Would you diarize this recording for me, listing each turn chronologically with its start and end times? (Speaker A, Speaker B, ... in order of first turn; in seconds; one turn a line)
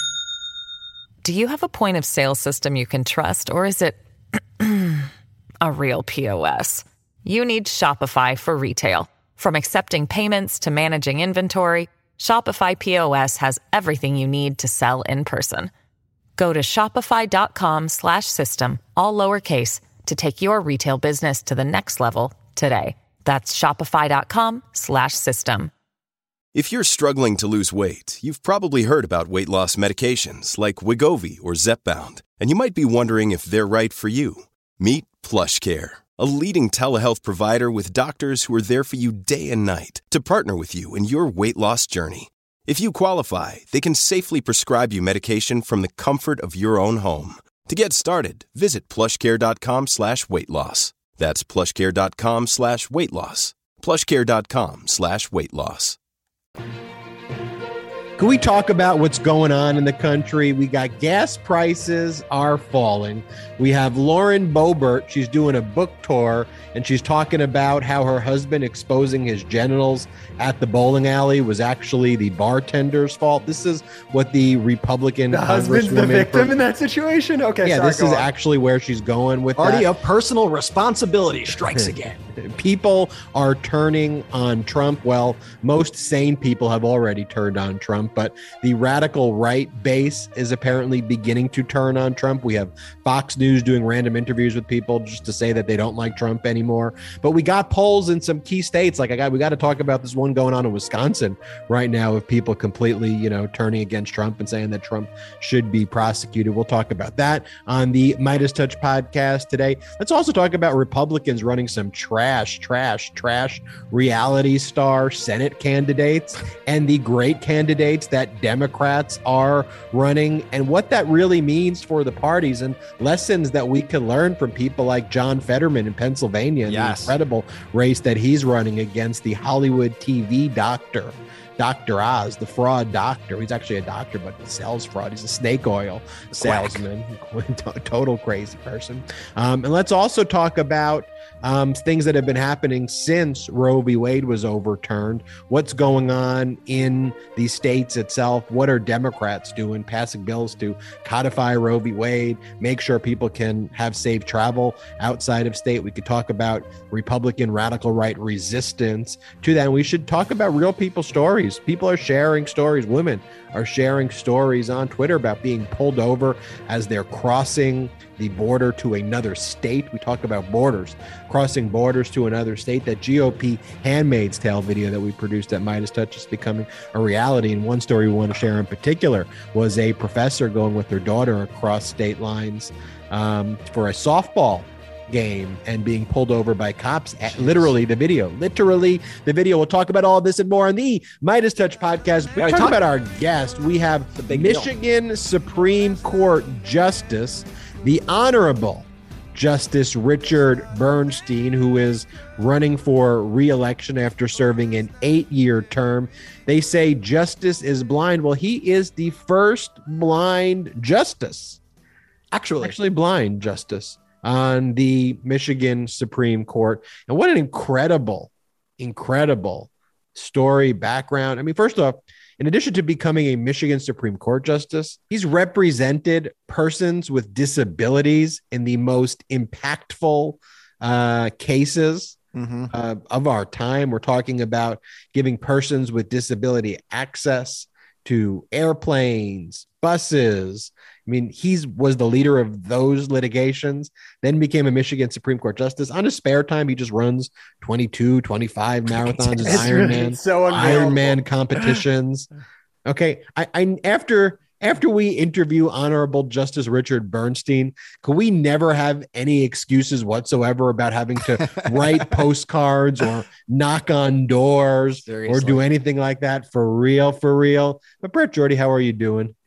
Speaker A: 1.2-4.0
Speaker A: 4.6-5.1
Speaker A: 5.6-15.7
Speaker A: 16.4-25.7
Speaker B: 26.5-56.0
Speaker C: 58.2-76.5
Speaker D: 75.3-78.3
Speaker C: 77.6-79.9
Speaker E: 79.6-82.2
Speaker C: 81.8-211.6
Speaker E: 126.7-127.1
Speaker E: 136.3-136.8
Speaker E: 187.2-187.7
Speaker E: 192.3-192.8
Speaker E: 194.2-194.7
Speaker E: 212.3-212.7
Speaker C: 212.6-232.2
Speaker E: 232.3-232.7
Speaker C: 232.7-252.3
Speaker D: 249.4-251.8
Speaker E: 249.4-249.9
Speaker C: 252.8-269.3
Speaker E: 265.0-265.6